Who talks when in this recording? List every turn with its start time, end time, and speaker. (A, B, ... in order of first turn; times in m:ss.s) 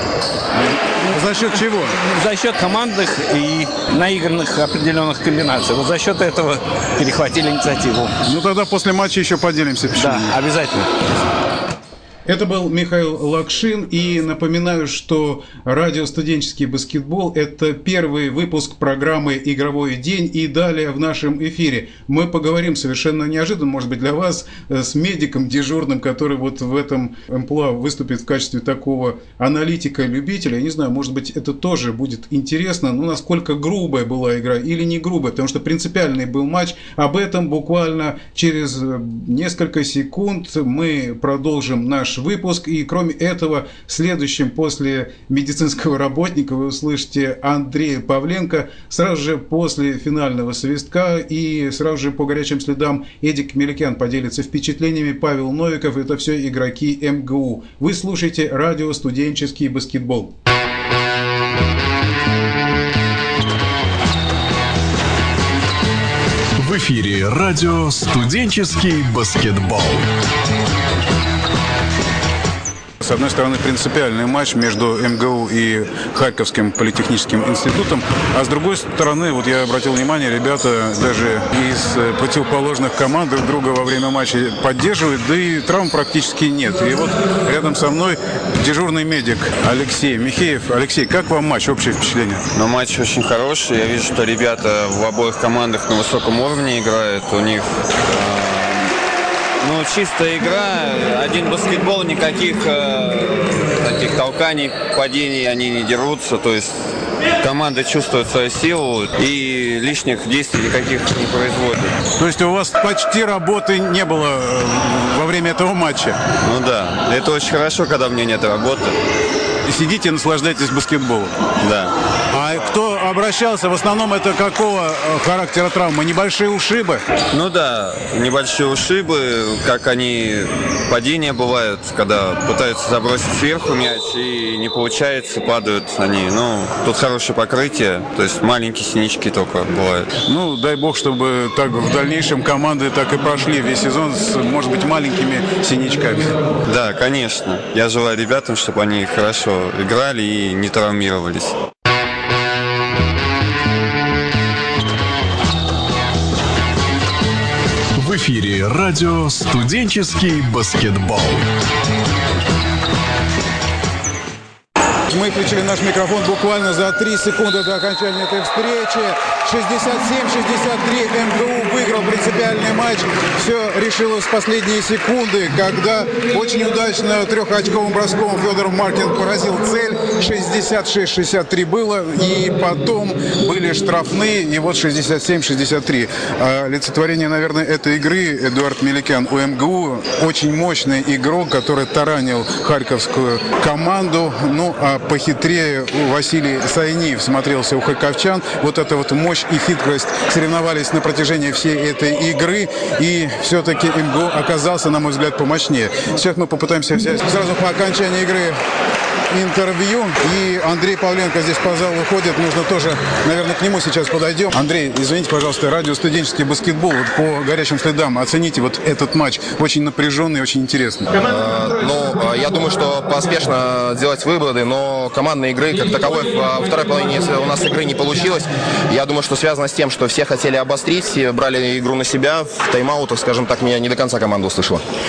0:01.1-0:02.0 A
0:02.0-0:08.2 B
0:08.2-0:10.4 A
0:10.0-0:10.9 B
0:12.3-1:00.3 A
1:06.6-1:10.1 C
1:13.0-1:32.4 A
1:32.6-1:38.9 D
1:39.6-1:46.7 D
1:47.4-1:52.0 D
1:52.2-1:56.2 A
1:56.4-1:59.0 D
1:59.6-2:01.4 A
2:01.6-2:02.0 D
2:02.3-2:07.0 A
2:07.3-2:20.1 D
2:20.3-2:26.4 A
2:26.7-2:31.6 D
2:38.0-2:41.5 C
2:45.1-3:28.6 A
3:29.3-3:41.1 A
3:41.1-3:54.8 E